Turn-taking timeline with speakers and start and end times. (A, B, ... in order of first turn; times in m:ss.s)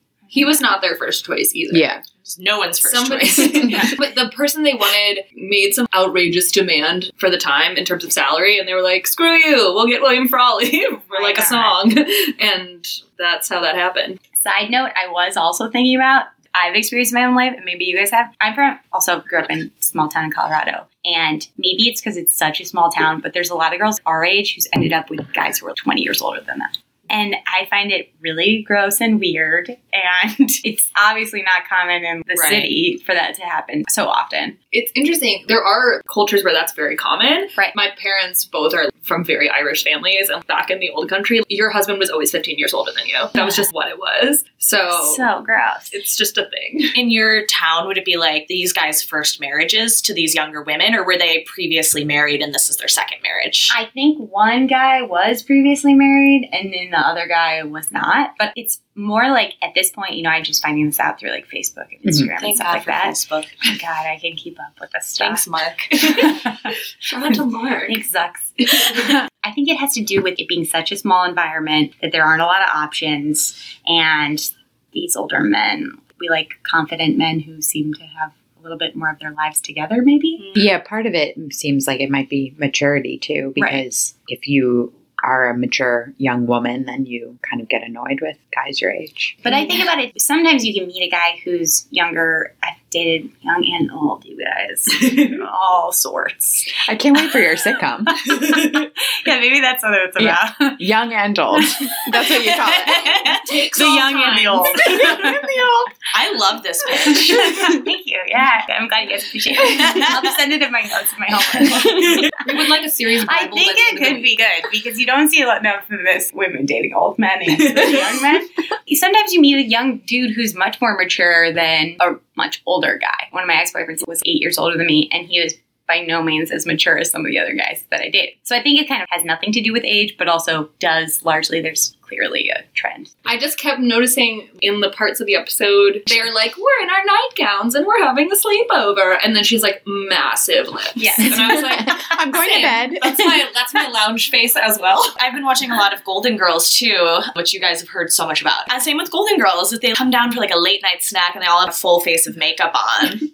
0:00.3-0:02.0 A
0:01.7-0:02.0 B
0:02.2-0:03.8 C
0:02.8-0:14.2 A
0:03.7-0:03.9 D
0:11.1-0:11.8 D
0:14.4-0:34.6 D
0:32.3-0:32.7 C
0:34.7-0:45.2 A
0:43.4-0:43.6 D
0:44.9-0:46.0 D
0:45.9-0:47.0 A
0:46.9-0:53.7 C
0:53.7-1:05.4 D
1:02.4-1:03.6 C
1:05.2-1:06.0 C
1:06.0-1:06.4 A
1:06.0-1:06.7 D
1:07.0-1:08.0 A
1:07.8-1:20.4 D
1:08.6-1:09.0 A
1:20.4-1:20.6 C
1:20.5-1:29.4 B
1:23.6-1:23.8 D
1:29.4-1:36.8 D
1:36.7-1:38.2 B
1:38.2-1:40.8 D
1:40.2-1:43.2 B
1:41.6-1:42.0 D
1:42.6-1:43.4 C
1:43.2-1:45.8 A
1:43.7-1:45.5 D
1:46.1-1:47.8 C
1:47.0-1:52.4 D
1:49.7-1:50.1 C
1:52.0-1:54.3 A
1:53.2-2:13.1 D
2:13.2-2:25.1 A
2:21.0-2:21.6 D
2:21.3-2:23.5 B
2:25.2-2:33.2 C